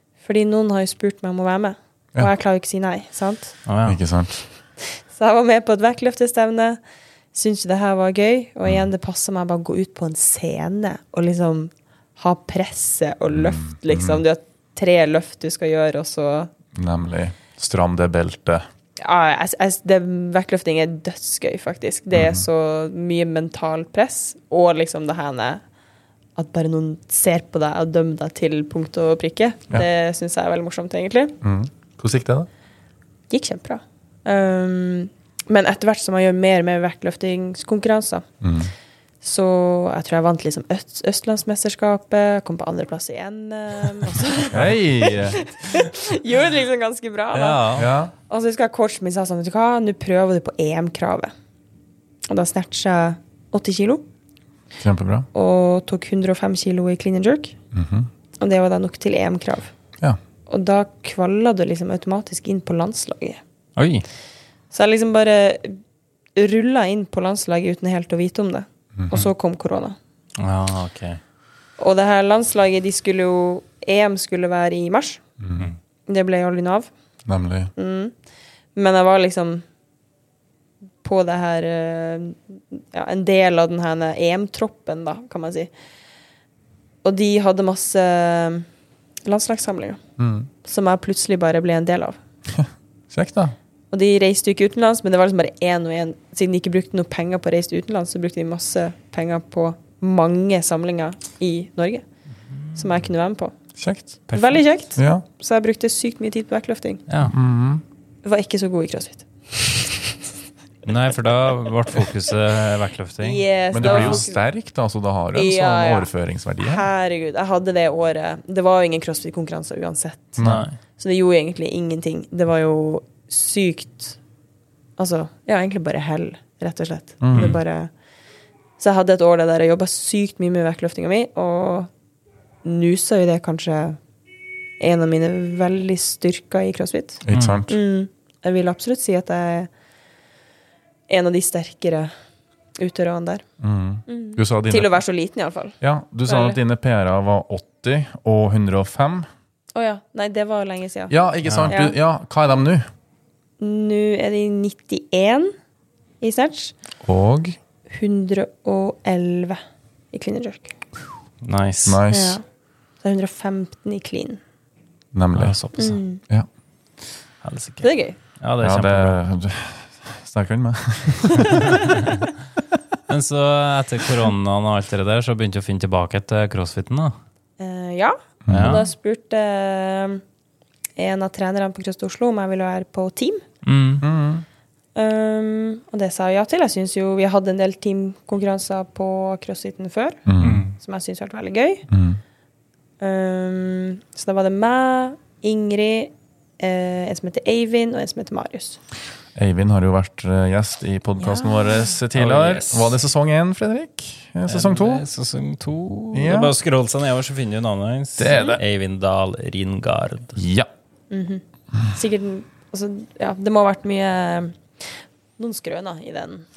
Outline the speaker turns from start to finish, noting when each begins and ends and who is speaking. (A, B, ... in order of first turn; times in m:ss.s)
0:00.2-0:03.6 A
0:03.6-0:04.0 B
0:03.8-0:04.4 C
0:04.8-0:06.8 A
0:07.3-0:16.5 A
0:13.3-0:14.2 C
0:16.7-0:18.6 C
0:19.0-0:25.6 A
0:22.1-0:22.4 C
0:26.4-0:31.4 A
0:31.4-0:32.5 C
0:33.3-0:38.2 A
0:38.4-0:38.7 C
0:39.2-0:51.3 A
0:44.5-0:45.4 C
0:47.3-0:47.9 B
0:47.7-0:48.1 C
0:52.3-0:54.0 A
0:54.8-0:55.3 C
0:55.3-0:57.6 A
0:57.7-0:58.1 C
0:58.4-0:59.7 A
1:00.5-1:03.4 A
1:03.8-1:04.0 B
1:04.7-1:05.8 A
1:06.4-1:10.0 A
1:09.0-1:09.2 C
1:10.4-1:11.2 B
1:11.8-1:15.2 A
1:15.4-1:15.7 C
1:16.1-1:16.9 A
1:17.2-1:17.7 C
1:17.8-1:18.1 A
1:18.7-1:19.6 A
1:21.0-1:25.7 A
1:27.0-1:28.7 A
1:29.2-1:30.0 A
1:30.2-1:30.5 C
1:30.6-1:32.2 A
1:32.5-1:33.5 C
1:33.9-1:42.0 A
1:42.7-1:43.6 A
1:43.8-1:45.2 C
1:44.3-1:47.0 A
1:47.1-1:47.3 B
1:47.2-1:47.8 C
1:48.2-1:50.2 A
1:50.8-1:54.2 B
1:53.2-1:54.4 A
1:53.7-1:56.8 C
1:55.3-1:56.1 A
1:56.6-2:04.2 A
2:00.4-2:00.6 C
2:00.4-2:00.8 B
2:05.0-2:07.9 A
2:07.2-2:07.6 C
2:08.8-2:11.9 A
2:12.6-2:14.0 A
2:14.8-2:19.7 A
2:17.2-2:17.7 C
2:17.3-2:17.6 B
2:21.1-2:22.1 A
2:22.8-2:23.4 A
2:23.6-2:24.9 C
2:24.1-2:26.6 A
2:25.8-2:29.3 C
2:29.7-2:31.9 A
2:31.1-2:32.8 C
2:31.4-2:31.7 B
2:33.6-2:35.5 A
2:36.2-2:36.7 A
2:37.0-2:37.6 C
2:37.9-2:39.6 A
2:40.1-2:40.7 A
2:41.4-2:42.0 B
2:41.8-2:42.4 C
2:42.1-2:42.4 A
2:43.0-2:44.4 A
2:45.1-2:45.6 C
2:45.3-2:46.0 B
2:45.8-2:46.2 A
2:47.4-2:47.9 B
2:47.8-2:48.2 A
2:48.4-2:49.2 B
2:48.6-2:52.0 C
2:51.5-2:51.8 A
2:53.1-2:57.1 B
2:57.6-3:00.2 A
2:58.4-2:58.8 C
2:58.5-2:58.9 B
3:01.0-3:03.4 A
3:03.6-3:04.0 B
3:04.0-3:04.4 C
3:04.9-3:10.2 A
3:10.3-3:10.6 C
3:10.4-3:10.7 B
3:10.8-3:11.9 A
3:11.9-3:12.2 C
3:13.0-3:18.8 A
3:19.3-3:25.0 C
3:21.2-3:21.9 A
3:22.1-3:22.9 B
3:24.5-3:30.4 B
3:26.1-3:26.5 C
3:28.2-3:28.6 C
3:28.3-3:28.6 A
3:30.4-3:30.7 C
3:31.1-3:36.4 A